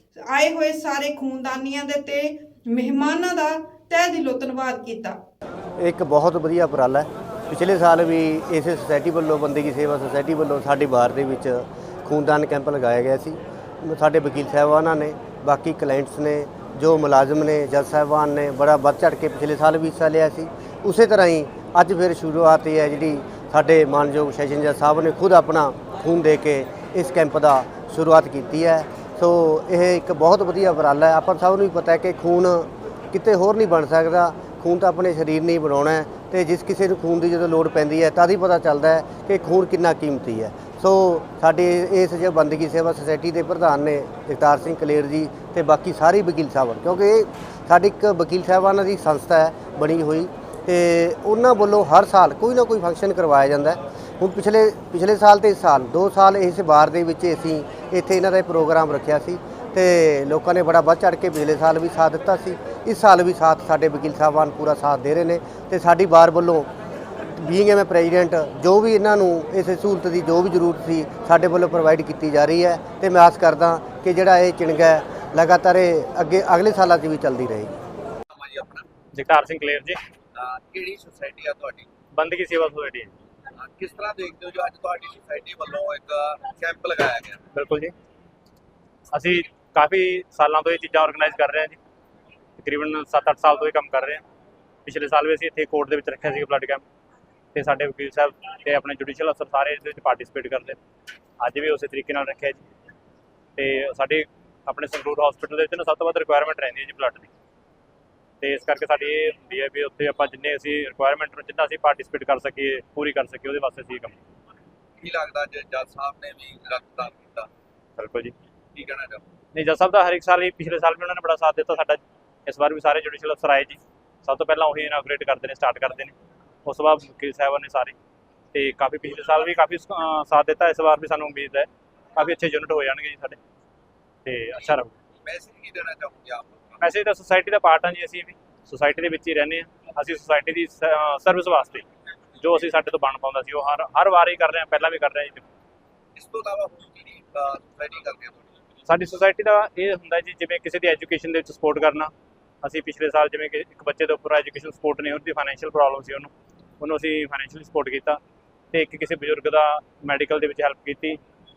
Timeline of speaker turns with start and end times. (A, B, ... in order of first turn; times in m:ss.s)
0:00.2-0:05.2 A
0:05.8-1:06.7 B
1:07.3-1:17.7 B
1:18.3-1:18.8 C
1:19.1-1:20.0 D
1:20.3-1:21.9 C
1:22.1-1:23.1 D
1:23.5-1:27.4 C
1:27.5-1:27.9 D
1:29.1-1:31.8 D
1:32.6-1:34.2 D
1:34.8-1:36.8 D
1:37.5-1:40.8 D
1:41.4-1:42.6 D
1:43.6-1:47.3 D
1:48.4-1:54.2 D
1:55.0-1:57.5 C
1:58.0-1:58.3 D
1:58.7-1:59.2 C
1:59.5-2:06.1 D
2:06.6-2:07.9 D
2:08.5-2:13.4 D
2:14.2-2:14.9 D
2:15.2-2:16.8 C
2:16.8-2:21.8 D
2:22.4-2:25.5 D
2:26.1-2:28.6 C
2:28.8-2:32.1 D
2:32.6-2:38.2 D
2:38.7-2:41.2 D